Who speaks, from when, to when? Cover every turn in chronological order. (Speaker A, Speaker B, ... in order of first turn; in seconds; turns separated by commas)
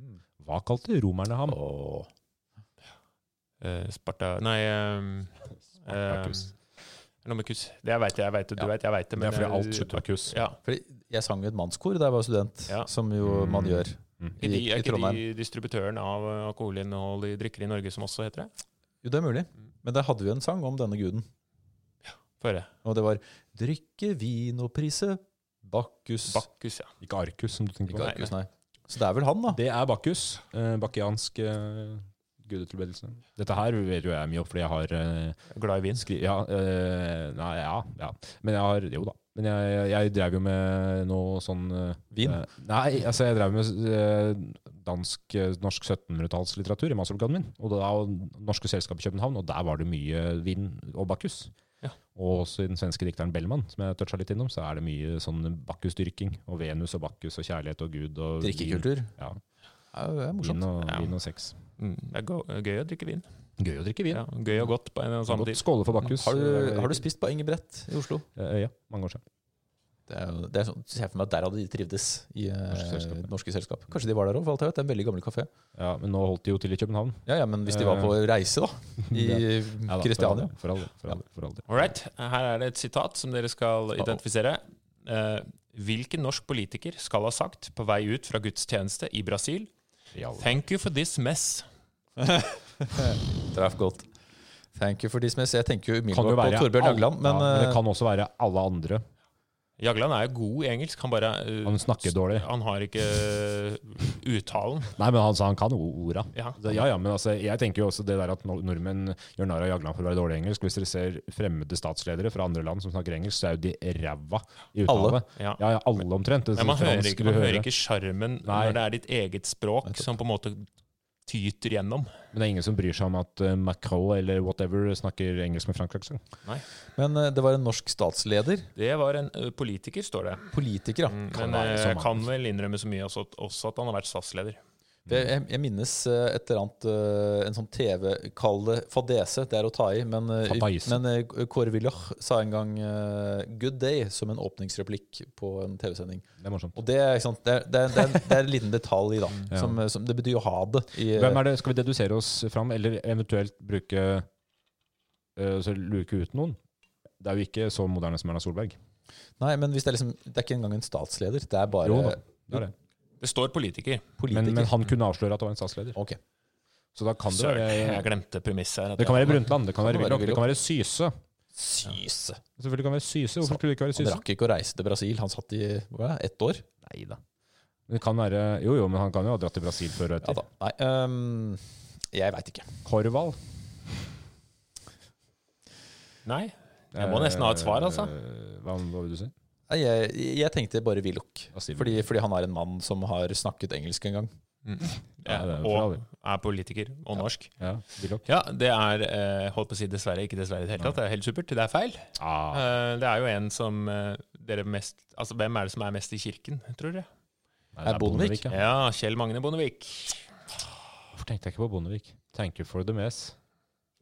Speaker A: 0.4-1.6, Speaker B: 1.5-2.1, Speaker C: 3.6-6.5, Speaker A: 5.9-6.4, Speaker C: 7.2-10.6, Speaker A: 9.2-10.4, Speaker B: 10.6-15.2, Speaker A: 13.2-14.4, Speaker C: 14.4-18.5, Speaker B: 19.0-21.3, Speaker C: 22.4-22.7, Speaker B: 22.8-26.4, Speaker C: 26.3-26.9, Speaker A: 27.0-28.1, Speaker B: 27.9-29.6, Speaker C: 28.0-28.3, Speaker A: 29.5-35.4, Speaker C: 35.5-36.1, Speaker A: 36.0-51.5, Speaker B: 42.1-42.4, Speaker A: 52.1-59.4, Speaker B: 58.4-59.1, Speaker B: 59.9-60.6, Speaker A: 60.4-61.5, Speaker C: 60.8-61.1, Speaker C: 61.8-63.3, Speaker A: 63.6-64.3, Speaker C: 64.1-65.6, Speaker A: 65.3-67.0, Speaker B: 66.2-68.2, Speaker A: 68.3-69.2, Speaker B: 70.1-75.5, Speaker A: 72.7-73.3, Speaker A: 75.7-78.2, Speaker B: 77.2-80.5, Speaker A: 79.0-81.7, Speaker C: 81.7-89.7, Speaker A: 90.1-90.5, Speaker C: 90.4-91.7, Speaker B: 92.2-94.1, Speaker B: 94.7-97.8, Speaker A: 96.1-99.0, Speaker C: 99.8-105.0, Speaker A: 101.6-102.5, Speaker A: 105.0-117.7, Speaker B: 114.8-115.2, Speaker C: 115.3-115.6, Speaker C: 116.5-120.7, Speaker A: 118.4-118.8, Speaker C: 121.2-122.1, Speaker A: 122.3-126.2, Speaker B: 127.0-128.7, Speaker C: 128.8-130.5, Speaker B: 130.5-131.9, Speaker C: 131.1-134.6, Speaker A: 131.7-132.1, Speaker B: 135.1-151.4, Speaker A: 140.4-141.0, Speaker A: 146.4-146.8, Speaker A: 149.5-149.8, Speaker A: 151.1-154.3, Speaker A: 155.3-156.6, Speaker A: 157.2-158.8, Speaker B: 159.4-162.6, Speaker A: 161.8-162.7, Speaker C: 163.2-164.1, Speaker B: 164.2-164.7, Speaker A: 164.3-166.0, Speaker A: 166.9-168.1, Speaker C: 167.3-169.5, Speaker A: 169.0-171.1, Speaker B: 169.8-170.5, Speaker B: 171.6-172.4, Speaker A: 172.6-174.2, Speaker B: 173.4-176.7, Speaker A: 176.8-177.2, Speaker A: 177.9-180.4, Speaker B: 180.2-182.8, Speaker A: 182.8-183.4, Speaker C: 186.2-188.1, Speaker A: 186.9-189.3, Speaker B: 189.7-194.3, Speaker A: 191.5-192.1, Speaker C: 194.6-197.5, Speaker A: 195.2-196.0, Speaker A: 197.6-198.2, Speaker C: 198.2-207.1, Speaker A: 202.2-202.7, Speaker A: 207.7-208.6, Speaker B: 207.8-208.5, Speaker C: 208.5-210.3, Speaker A: 211.1-213.3